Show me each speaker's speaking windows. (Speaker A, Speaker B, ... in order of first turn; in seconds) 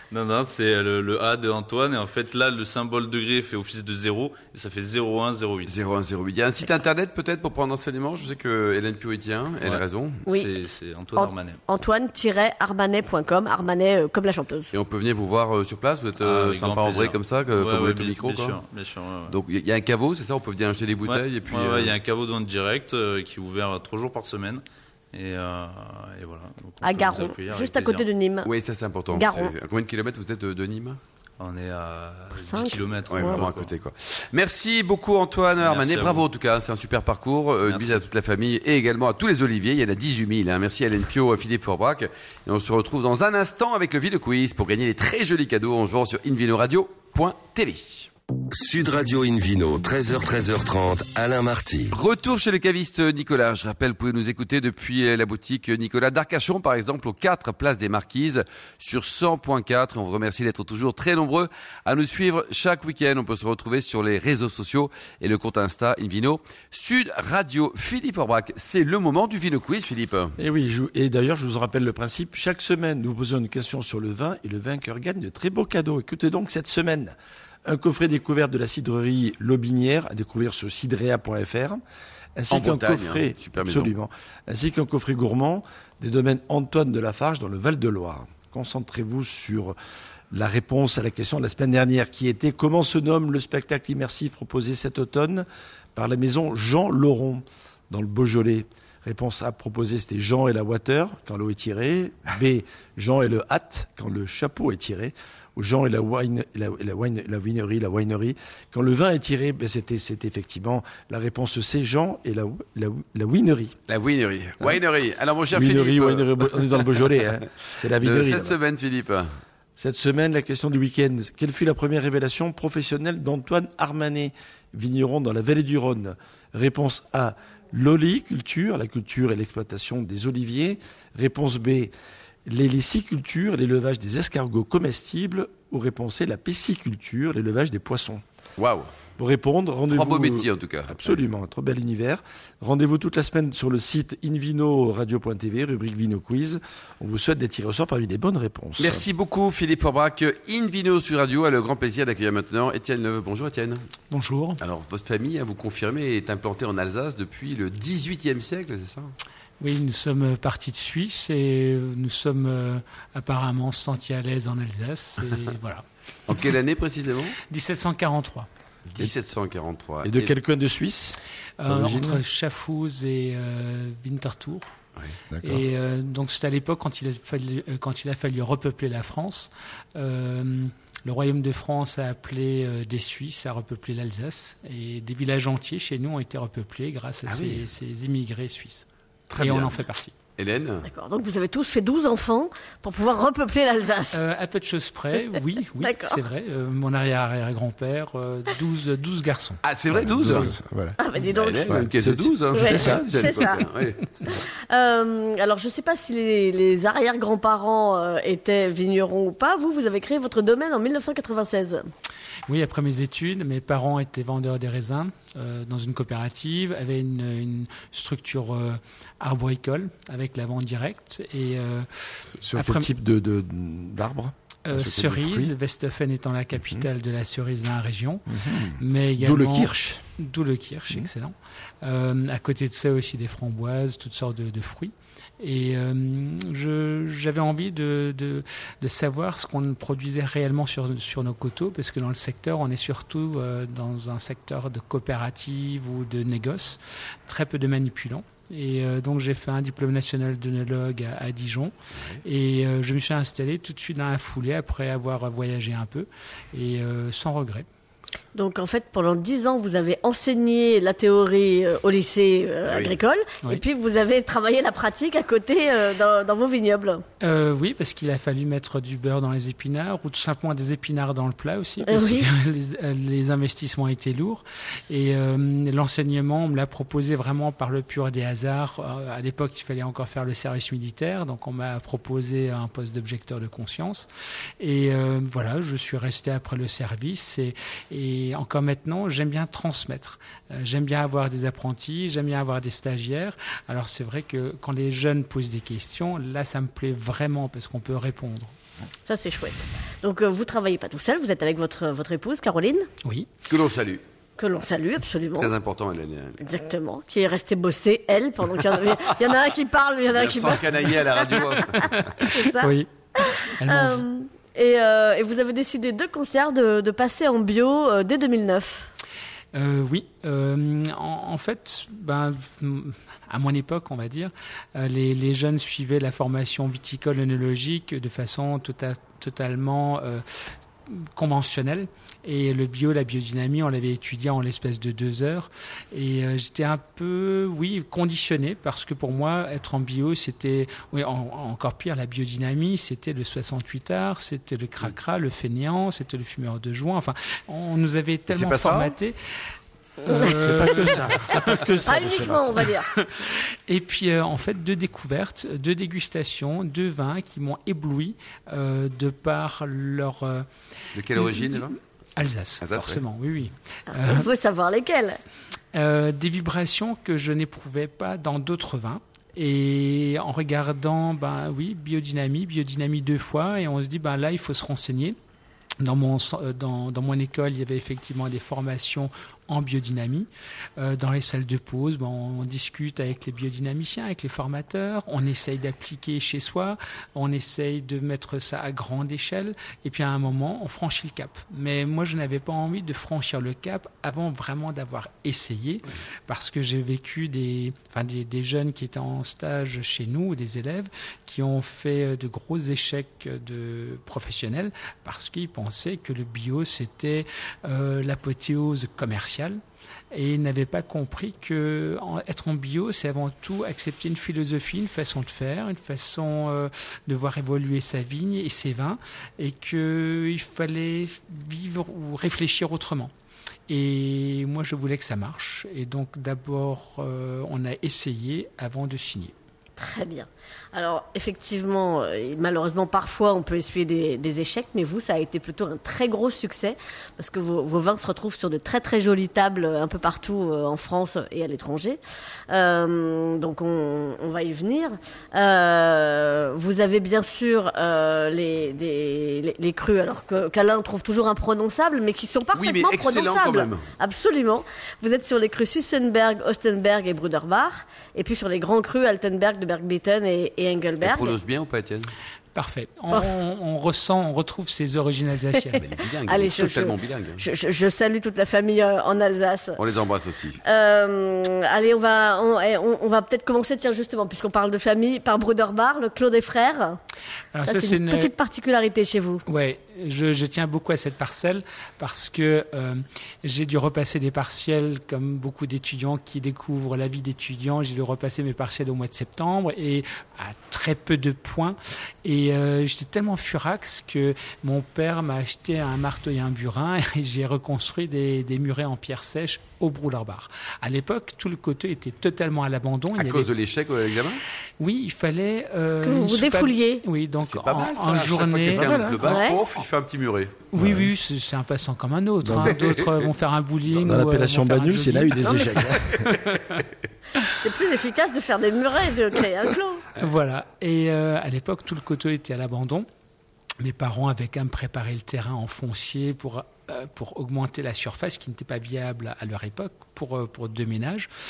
Speaker A: 0.1-5.8, 9.6-11.6, 16.2-19.4, 21.0-28.1, 31.4-33.7, 35.6-36.3, 37.6-38.0
Speaker B: 5.7-10.2, 14.7-18.6, 19.3-21.9, 28.4-31.0, 33.1-48.1, 51.9-70.3, 82.5-83.9, 113.9-116.5, 118.0-119.3, 138.6-138.9, 139.9-141.0, 148.8-153.8, 154.6-159.1, 166.3-167.4, 168.9-170.3, 187.2-187.7, 189.3-189.8, 190.4-190.9, 199.6-200.5, 201.3-204.1, 262.6-263.0, 303.5-304.0, 305.4-306.4, 310.1-312.1, 348.3-349.0, 360.9-361.8, 362.6-363.0, 452.5-453.9, 461.0-462.1, 465.7-467.4, 469.8-470.6, 503.1-504.4, 507.4-510.7, 512.6-513.2
Speaker C: 10.2-10.6, 11.2-14.7, 26.8-28.5, 29.1-29.5, 32.3-33.5, 190.8-194.2, 195.8-196.3, 201.0-201.7, 202.5-203.6, 204.2-211.8, 258.3-267.0, 271.8-272.3, 299.1-302.9, 304.4-305.5, 306.4-318.9, 350.1-350.5, 351.8-352.9, 363.9-365.2, 429.8-461.4, 465.5-469.9, 470.6-477.0, 477.6-479.4, 506.0-507.0, 509.2-509.6, 515.4-515.9, 517.6-520.0
Speaker D: 48.5-51.9
Speaker E: 70.4-77.1, 77.7-81.8, 82.3-89.8, 90.3-113.8, 115.5-118.5, 119.8-131.9, 132.4-138.2, 139.2-149.0, 170.0-172.2, 175.3-175.7, 199.9-201.0, 201.5-203.1, 222.4-225.6, 226.5-226.9, 228.3-230.1, 350.2-352.6, 508.7-509.2, 510.8-511.1, 512.4-512.8, 513.8-516.1
Speaker F: 154.1-154.6, 159.6-165.8, 167.5-168.5, 171.6-174.7, 175.4-190.1, 194.1-199.6, 212.5-221.9, 224.7-228.2, 228.8-257.6, 267.2-298.5, 303.0-303.3, 313.6-314.0, 319.5-330.2, 331.0-349.1, 350.1-350.7, 353.7-360.4, 362.1-364.1, 365.7-375.2, 375.8-409.6, 410.1-423.1, 423.7-429.3, 462.5-465.8, 477.5-478.3, 479.5-503.5, 504.8-508.9, 510.7-515.7, 520.2-523.0, 523.8-531.3